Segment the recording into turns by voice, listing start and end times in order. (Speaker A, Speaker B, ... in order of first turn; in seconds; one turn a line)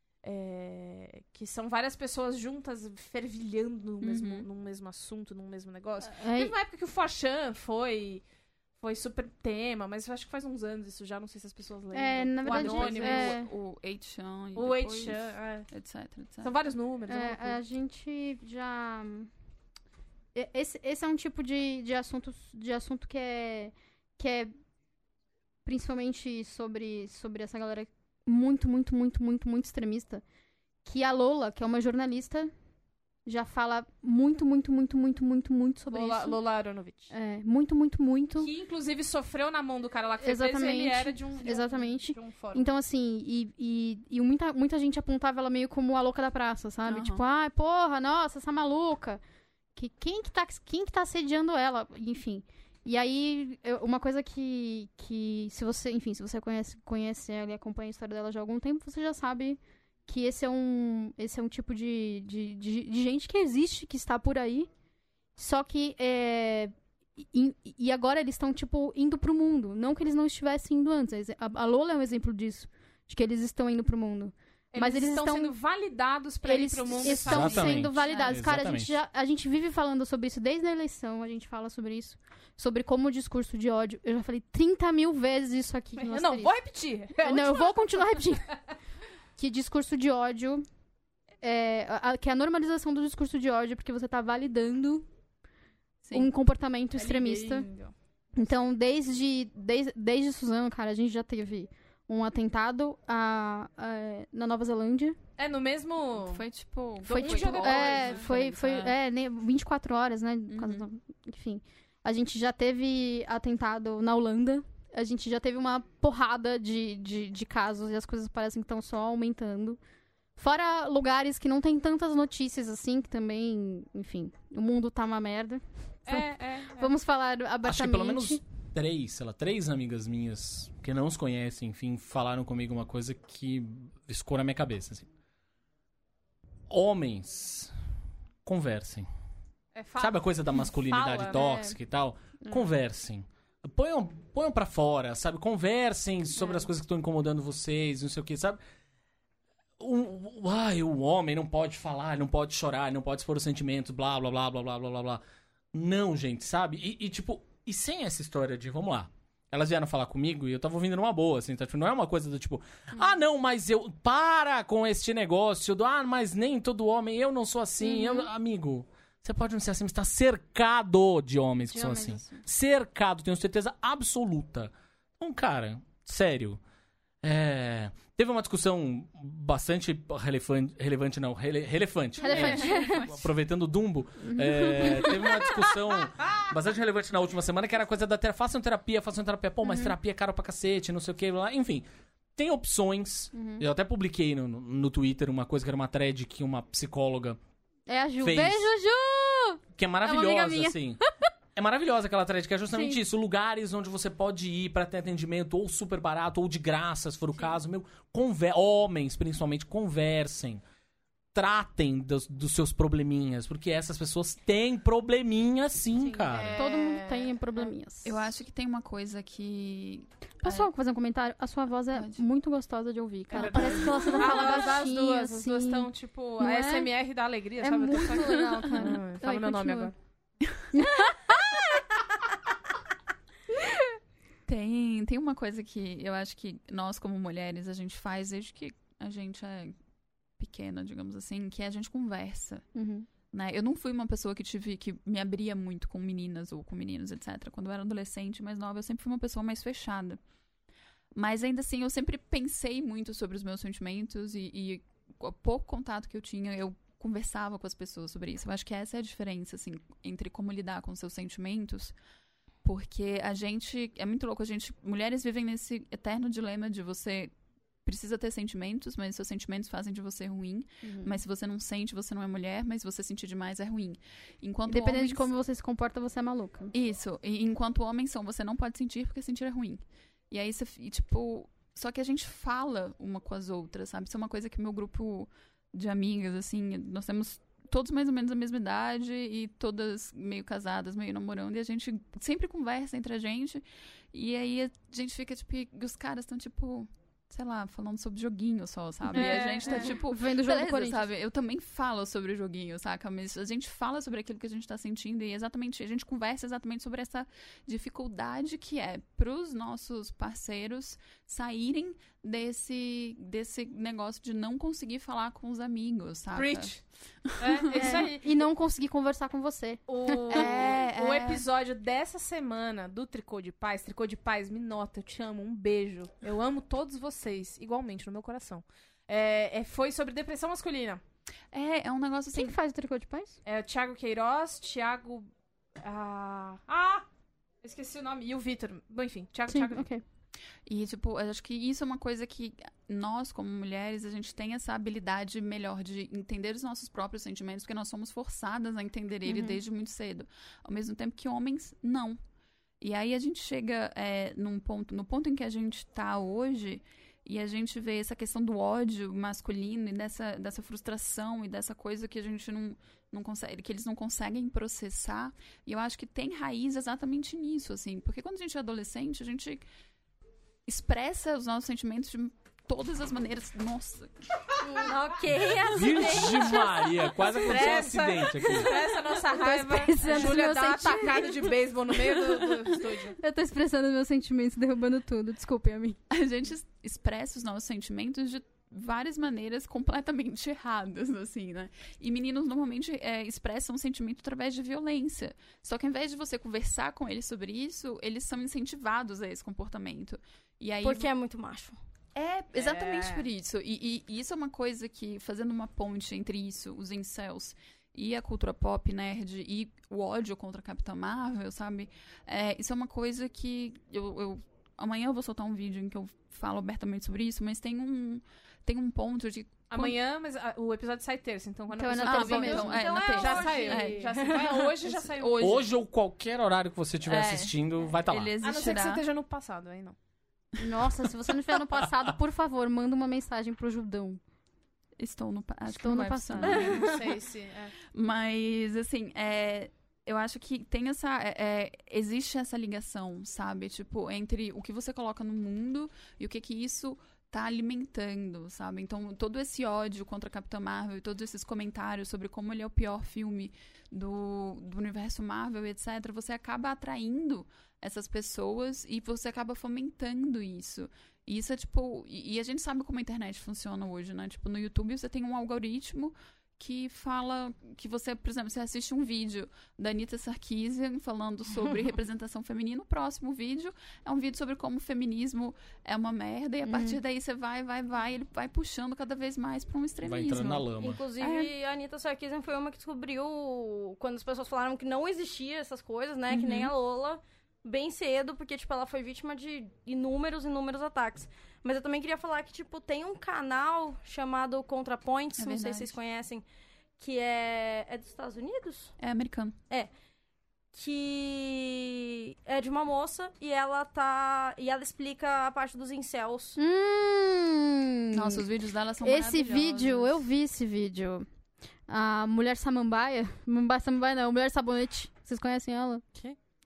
Speaker A: 0.2-8.2
Speaker B: 4.0-4.5
Speaker C: 6.0-6.5
Speaker A: 8.8-13.4
Speaker C: 11.9-13.5
Speaker B: 12.4-16.5
Speaker A: 14.5-15.7
Speaker A: 16.4-17.6
Speaker C: 17.1-19.3
Speaker C: 20.3-24.5
Speaker C: 25.6-30.2
Speaker C: 30.8-32.5
Speaker C: 33.2-36.4
Speaker A: 35.9-37.1
Speaker C: 37.1-38.5
Speaker A: 38.4-42.7
Speaker C: 40.2-49.2
Speaker B: 46.9-47.2
Speaker C: 49.7-64.7
Speaker C: 65.3-75.5
Speaker A: 74.7-77.9
Speaker C: 76.4-86.5
Speaker D: 77.1-78.9
Speaker B: 77.5-78.4
Speaker A: 86.0-88.3
Speaker C: 87.2-88.5
Speaker C: 89.4-90.6
Speaker C: 91.4-95.1
Speaker B: 96.0-96.3
Speaker C: 96.1-97.7
Speaker A: 97.0-97.9
Speaker C: 98.3-105.2
Speaker A: 105.4-106.4
Speaker B: 106.2-108.9
Speaker A: 107.0-108.3
Speaker C: 107.1-119.8
Speaker B: 110.5-110.9
Speaker C: 120.4-128.4
Speaker A: 126.1-126.9
Speaker D: 127.6-135.1
Speaker D: 136.7-137.7
Speaker D: 138.4-139.1
Speaker A: 139.7-141.7
Speaker D: 140.0-148.6
Speaker D: 149.8-155.2
Speaker D: 155.7-176.6
Speaker C: 167.8-168.2
Speaker C: 171.7-172.4
Speaker D: 177.2-191.8
Speaker C: 182.2-183.2
Speaker B: 182.3-183.1
Speaker C: 184.2-185.4
Speaker D: 192.3-197.4
Speaker C: 193.3-193.6
Speaker C: 197.9-201.2
Speaker D: 198.2-198.7
Speaker D: 199.7-201.0
Speaker D: 201.5-210.6
Speaker C: 202.7-203.0
Speaker D: 211.3-216.6
Speaker A: 216.1-217.6
Speaker C: 216.5-218.2
Speaker B: 218.0-220.7
Speaker C: 220.4-226.9
Speaker B: 221.9-222.2
Speaker B: 223.3-224.6
Speaker A: 223.3-229.9
Speaker C: 227.6-229.9
Speaker B: 228.1-228.9
Speaker C: 230.7-231.6
Speaker B: 234.4-239.7
Speaker B: 240.4-242.7
Speaker C: 242.7-243.1
Speaker B: 243.3-250.2
Speaker B: 251.1-261.9
Speaker B: 262.6-267.3
Speaker B: 267.8-275.3
Speaker C: 270.8-271.2
Speaker C: 274.7-276.7
Speaker B: 276.7-316.7
Speaker C: 299.1-301.0
Speaker A: 316.3-316.8
Speaker B: 317.2-317.9
Speaker A: 317.4-318.4
Speaker C: 317.7-320.8
Speaker A: 319.9-331.0
Speaker B: 320.3-321.4
Speaker B: 331.5-332.6
Speaker C: 332.3-333.4
Speaker A: 333.4-335.3
Speaker A: 335.8-337.1
Speaker A: 337.6-339.9
Speaker C: 339.5-340.0
Speaker B: 340.7-352.2
Speaker C: 349.2-349.6
Speaker B: 352.8-369.6
Speaker B: 370.6-374.1
Speaker E: 374.6-377.9
Speaker D: 375.7-378.7
Speaker A: 377.4-383.1
Speaker E: 378.4-378.8
Speaker C: 379.3-381.5
Speaker C: 382.1-382.5
Speaker C: 383.2-386.0
Speaker B: 386.1-401.1
Speaker E: 400.8-401.8
Speaker B: 402.1-419.9
Speaker A: 402.5-403.2
Speaker A: 419.7-425.6
Speaker C: 421.7-422.8
Speaker B: 422.0-425.6
Speaker E: 422.4-424.5
Speaker D: 425.4-428.3
Speaker B: 427.0-429.0
Speaker A: 428.4-429.9
Speaker C: 430.6-434.2
Speaker B: 435.0-437.0
Speaker C: 435.6-436.9
Speaker E: 436.4-436.9
Speaker A: 436.9-437.8
Speaker B: 437.9-481.5
Speaker C: 476.6-477.0
Speaker D: 480.0-481.0
Speaker E: 480.8-496.4
Speaker B: 486.3-486.7
Speaker B: 495.3-495.9
Speaker E: 497.0-498.9
Speaker B: 499.0-499.6
Speaker E: 500.7-506.6
Speaker C: 506.6-508.5
Speaker B: 508.1-510.2
Speaker C: 509.0-511.2
Speaker C: 511.9-516.0